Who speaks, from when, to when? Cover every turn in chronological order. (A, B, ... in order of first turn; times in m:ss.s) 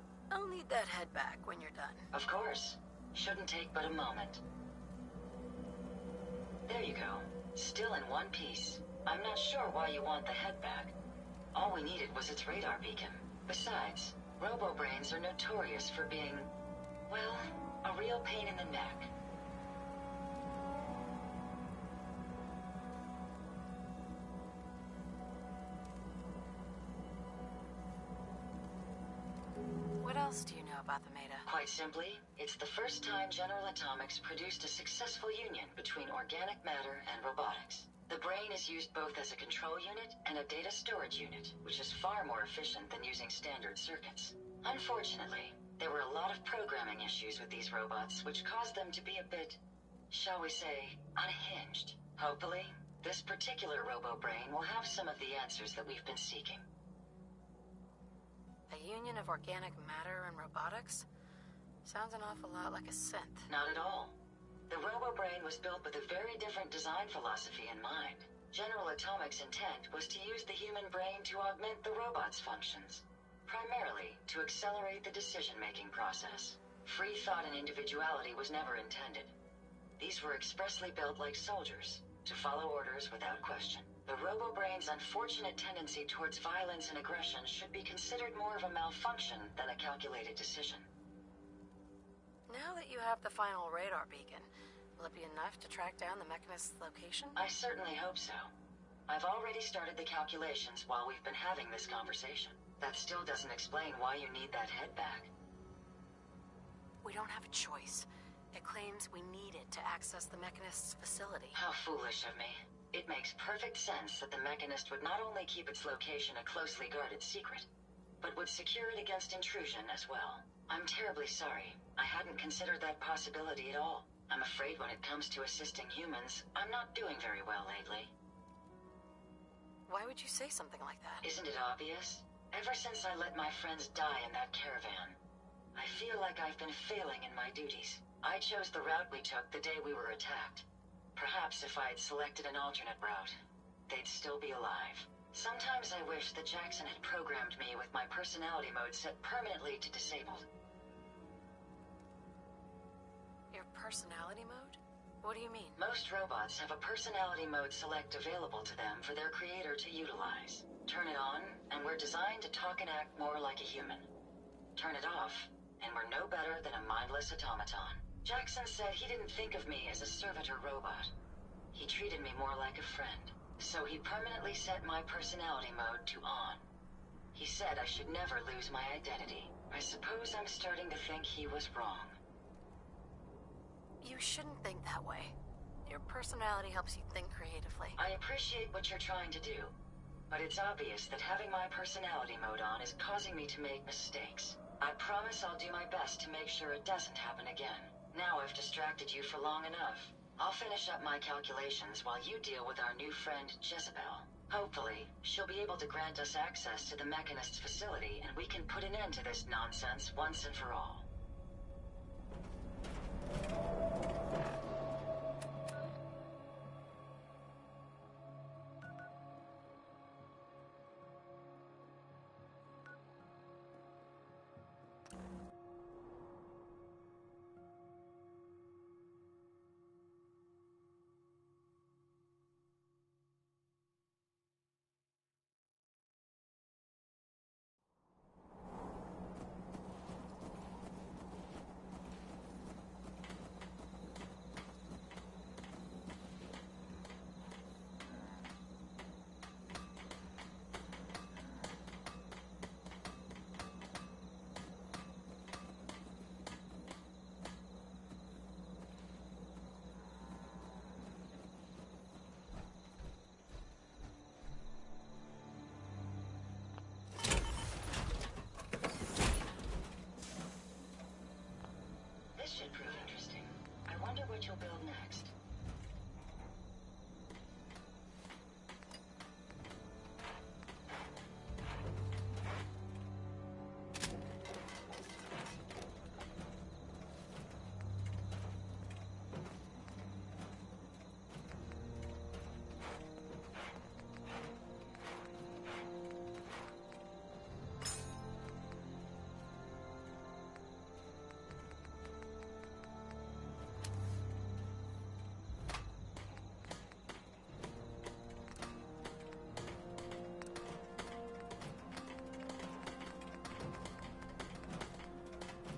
0:00.3-0:02.1 A
0:02.1-0:04.4 B
0:06.6-0:10.9 B
0:11.5-0:16.5 B
0:17.1-0:19.1 B
0:30.0-0:31.5 A
0:31.4-0:56.6 B
0:58.7-1:01.0 A
1:01.8-1:03.5 A
1:03.5-1:04.2 B
1:04.7-1:19.4 B
1:20.0-1:30.9 B
1:32.5-1:37.4 A
1:37.4-1:38.5 B
1:39.1-1:45.3 B
1:47.0-1:51.6 A
1:51.5-1:57.7 B
1:58.2-2:08.1 B
2:09.9-2:11.2 A
2:11.2-2:15.2 B
2:15.7-2:23.4 B
2:23.9-2:30.4 B
2:33.5-2:35.8 A
2:35.8-2:44.1 B
2:44.8-2:51.1 B
2:51.7-2:56.6 B
2:57.3-3:02.2 B
3:04.0-3:05.3 A
3:05.8-3:08.0 A
3:08.0-3:09.7 B
3:10.3-3:31.0 B
4:32.4-4:35.3 B